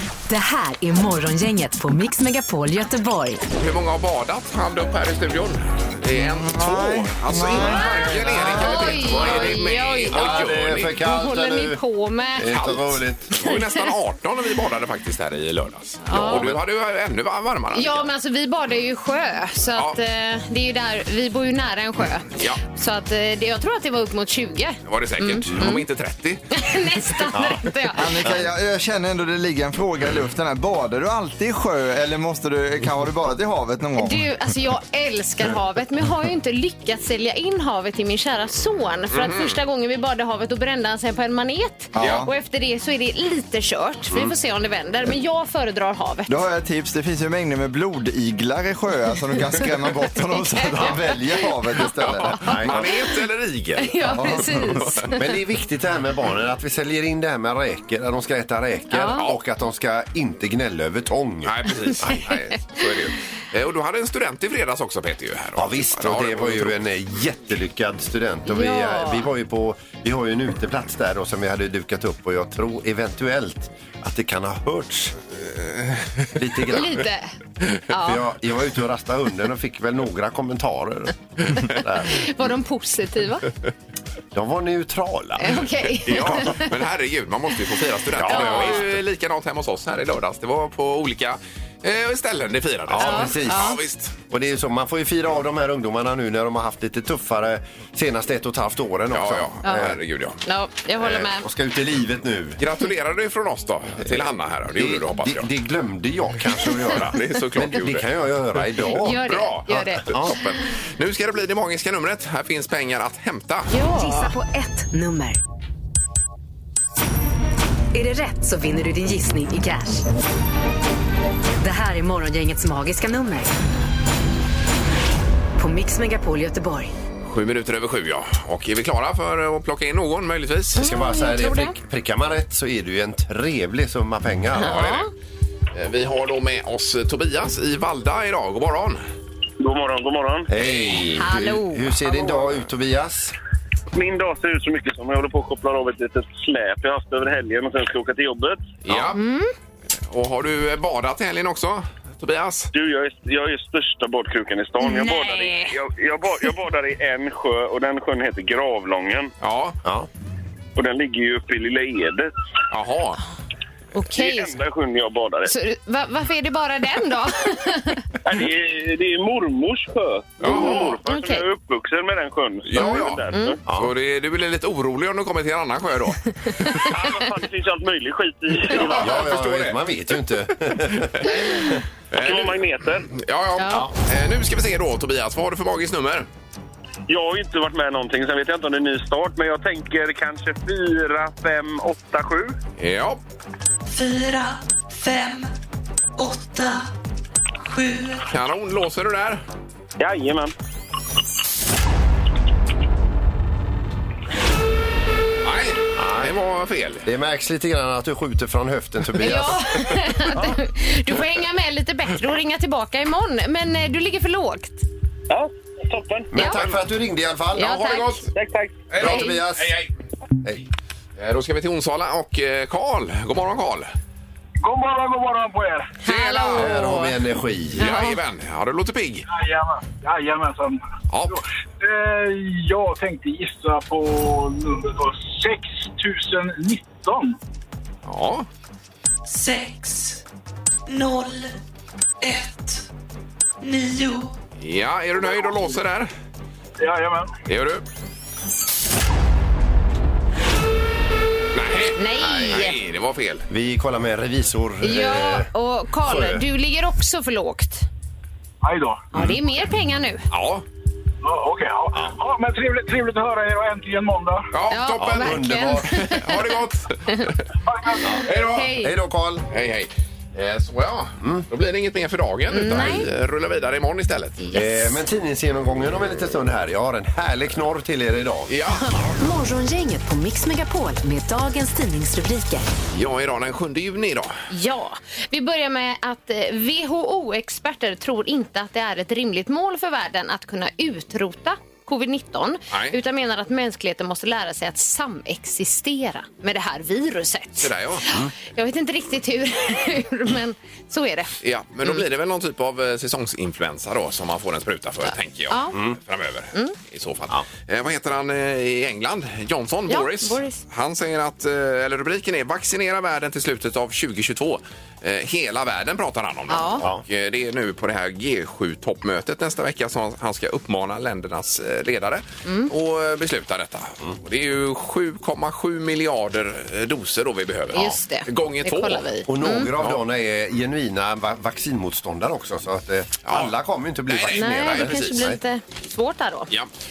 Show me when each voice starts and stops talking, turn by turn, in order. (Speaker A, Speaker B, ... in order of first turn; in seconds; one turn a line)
Speaker A: 0.3-3.4
Speaker B: 3.6-10.9
Speaker C: 6.1-8.9
Speaker D: 7.6-12.8
Speaker E: 8.3-11.8
Speaker E: 12.4-13.3
Speaker B: 12.5-18.1
Speaker D: 13.4-13.9
Speaker D: 16.1-16.4
Speaker E: 16.1-16.6
Speaker D: 17.7-25.8
Speaker B: 24.9-26.4
Speaker D: 26.5-28.1
Speaker E: 27.3-27.7
Speaker C: 27.9-34.3
Speaker D: 34.0-46.4
Speaker B: 39.1-39.6
Speaker C: 41.9-42.3
Speaker B: 42.0-42.3
Speaker C: 46.3-52.5
Speaker D: 50.5-51.1
Speaker B: 52.0-55.0
Speaker E: 52.4-52.9
Speaker D: 53.8-55.3
Speaker C: 54.1-54.8
Speaker E: 55.1-62.3
Speaker D: 58.9-59.2
Speaker B: 59.1-59.4
Speaker B: 61.4-66.8
Speaker E: 65.5-75.2
Speaker D: 68.5-69.3
Speaker B: 75.7-76.2
Speaker E: 76.3-77.1
Speaker D: 76.7-77.3
Speaker D: 77.9-78.2
Speaker E: 78.0-82.3
Speaker D: 82.1-83.5
Speaker E: 84.3-85.7
Speaker D: 85.4-86.7
Speaker B: 86.0-94.2
Speaker E: 88.2-88.9
Speaker D: 88.3-88.8
Speaker E: 92.9-100.0
Speaker D: 93.0-93.8
Speaker B: 99.1-100.4
Speaker D: 100.4-101.5
Speaker E: 101.0-102.6
Speaker B: 102.6-105.5
Speaker E: 104.7-109.2
Speaker B: 106.8-113.7
Speaker D: 108.8-110.1
Speaker E: 110.0-110.4
Speaker D: 113.7-114.3
Speaker A: 113.8-115.4
Speaker A: 117.9-120.0
Speaker A: 121.6-123.5
Speaker A: 125.6-126.9
Speaker B: 127.2-130.8
Speaker D: 130.7-131.8
Speaker E: 130.8-134.9
Speaker D: 134.6-135.1
Speaker B: 134.6-135.1
Speaker B: 135.7-139.0
Speaker F: 139.6-140.5
Speaker E: 140.5-143.3
Speaker D: 140.6-142.1
Speaker F: 143.9-148.7
Speaker B: 148.8-149.2
Speaker D: 149.1-149.5
Speaker B: 150.0-152.7
Speaker F: 152.7-159.3
Speaker D: 154.8-155.7
Speaker B: 159.4-159.8
Speaker F: 160.8-162.3
Speaker B: 162.7-163.2
Speaker D: 163.9-164.6
Speaker F: 164.1-165.5
Speaker D: 165.4-168.1
Speaker F: 168.2-173.6
Speaker B: 170.4-170.9
Speaker D: 170.4-171.4
Speaker B: 172.6-176.8
Speaker D: 172.8-173.6
Speaker E: 173.7-173.9
Speaker D: 176.5-176.8
Speaker F: 176.8-179.2
Speaker B: 178.7-180.2
Speaker E: 179.0-181.8
Speaker B: 180.9-181.3
Speaker B: 182.1-186.3
Speaker F: 182.1-183.1
Speaker D: 183.6-183.8
Speaker F: 187.1-192.5
Speaker B: 192.8-193.2
Speaker G: 193.9-195.5
Speaker G: 196.2-196.9
Speaker G: 197.6-198.3
Speaker B: 198.3-199.4
Speaker F: 200.0-200.5
Speaker B: 205.4-207.1
Speaker E: 206.0-206.3
Speaker E: 207.0-210.0
Speaker D: 209.2-214.8
Speaker F: 215.3-216.3
Speaker E: 216.3-217.8
Speaker D: 216.3-216.6
Speaker B: 216.4-216.8
Speaker D: 217.5-218.3
Speaker B: 217.6-218.3
Speaker F: 218.3-218.9
Speaker B: 218.9-219.9
Speaker E: 219.0-219.8
Speaker D: 219.0-219.4
Speaker B: 221.2-223.9
Speaker H: 224.6-225.9
Speaker D: 226.0-227.2
Speaker B: 226.0-226.7
Speaker E: 226.6-227.9
Speaker B: 227.8-229.2
Speaker D: 227.8-228.2
Speaker H: 229.3-237.3
Speaker B: 231.1-231.4
Speaker B: 238.1-238.5
Speaker G: 239.2-240.2
Speaker G: 240.9-241.5
Speaker G: 242.2-242.8
Speaker G: 243.6-244.4
Speaker B: 244.6-246.1
Speaker H: 246.8-247.3
Speaker B: 247.5-247.8
Speaker B: 251.5-253.5
Speaker D: 251.9-252.8
Speaker E: 252.3-252.7
Speaker E: 253.5-255.5
Speaker D: 254.8-257.9
Speaker E: 256.0-256.4
Speaker H: 258.6-259.1
Speaker D: 259.1-260.3
Speaker B: 260.3-260.6
Speaker H: 261.2-264.5
Speaker B: 264.5-267.4
Speaker D: 264.7-266.5
Speaker E: 265.0-266.3
Speaker H: 267.6-268.0
Speaker D: 268.0-268.9
Speaker E: 268.0-269.5
Speaker B: 268.2-268.7
Speaker B: 269.5-274.4
Speaker E: 271.2-271.4
Speaker D: 272.5-273.1
Speaker D: 274.4-275.0
Speaker E: 274.5-278.5
Speaker B: 278.5-278.9
Speaker A: 279.2-282.7
Speaker B: 282.9-284.3
Speaker D: 284.5-302.0
Speaker B: 292.7-292.9
Speaker B: 297.6-298.0
Speaker B: 301.4-329.1
Speaker D: 305.5-305.8
Speaker E: 305.7-306.0
Speaker D: 309.9-310.6
Speaker D: 316.5-316.8
Speaker D: 322.4-322.7
Speaker D: 327.7-329.7
Speaker E: 329.3-335.4
Speaker B: 333.2-333.5
Speaker B: 334.1-335.3
Speaker D: 334.3-336.5